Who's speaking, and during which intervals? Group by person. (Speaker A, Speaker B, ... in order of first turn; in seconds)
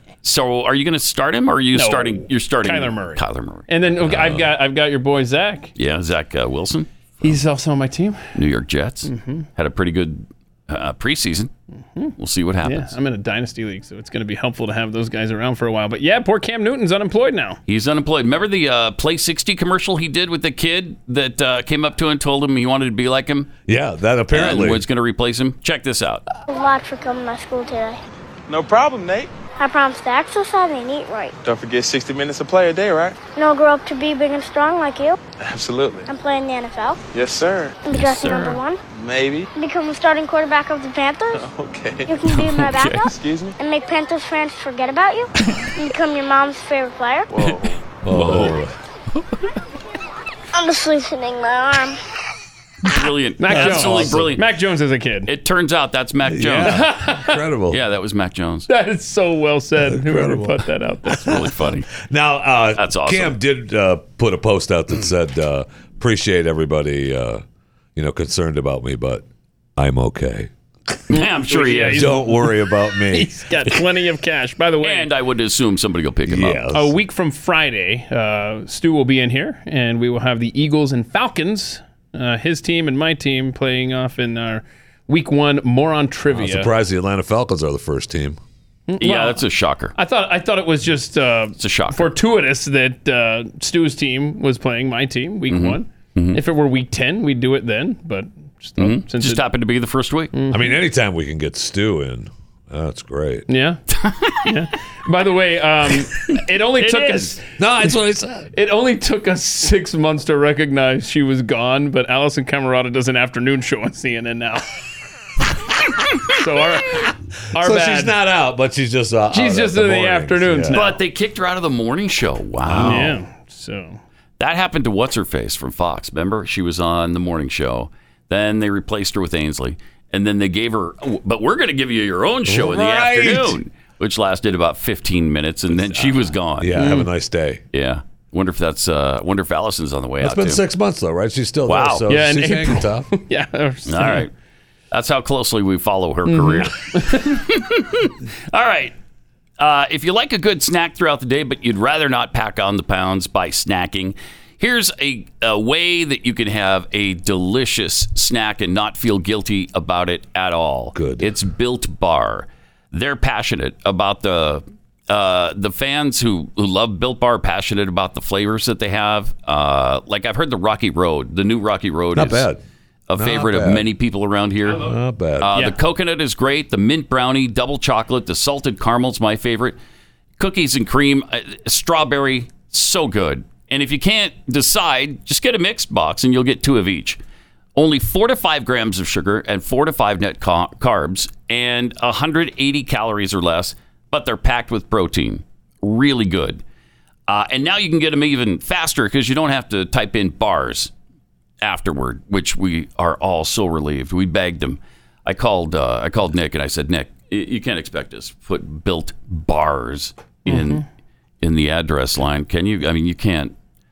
Speaker A: 0.2-3.7, 5.8-7.4, 8.3-11.5, 12.2-12.9, 17.7-23.5, 24.3-26.2, 37.9-38.6, 42.2-43.1, 47.4-48.6, 52.9-54.4, 55.2-56.9, 57.7-58.7, 61.1-61.9, 62.8-63.4, 71.1-72.2, 74.8-76.6, 89.0-89.9, 91.6-92.1, 95.5-96.4, 98.8-100.3, 103.9-104.5, 106.3-107.3, 120.7-123.1, 124.4-136.9, 137.7-140.6, 141.7-142.1, 143.8-144.3, 144.9-148.9, 149.6-172.5, 173.1-179.8, 180.4-187.2, 187.8-196.6, 197.3-200.9, 201.6-210.8, 211.4-213.5
Speaker B: 1.7-5.7, 7.2-8.3, 9.1-9.5, 12.6-17.6, 53.4-55.3, 56.6-57.4, 58.7-61.1, 71.2-72.5, 73.1-75.1, 76.7-86.7, 88.9-89.4, 90.0-99.4, 100.3-100.7, 103.5-103.8, 104.4-107.4, 108.5-114.6, 116.4-118.2, 119.3-121.0, 122.8-124.0, 136.7-137.1, 142.1-144.2, 146.3-147.2, 210.5-210.8
Speaker C: 4.0-4.5, 23.7-24.8, 48.0-48.7, 53.5-54.3, 56.2-57.8, 59.8-67.4, 68.0-69.2, 69.8-70.5, 71.9-73.4, 76.2-77.0, 86.3-88.4, 100.5-103.4, 107.6-108.5, 117.6-120.8, 122.7-123.1, 132.4-133.6, 135.7-137.6, 140.2-143.1, 160.9-161.3, 172.1-172.6, 173.2-173.8, 174.8-175.5
Speaker D: 26.5-28.0, 29.6-31.4, 33.4-35.2, 36.1-37.0, 37.8-38.8, 39.5-41.5, 42.0-47.4, 50.5-52.0
Speaker E: 28.5-29.3, 31.4-33.1, 35.5-36.0, 37.1-37.7, 39.0-39.5, 41.5-42.0, 43.2-43.5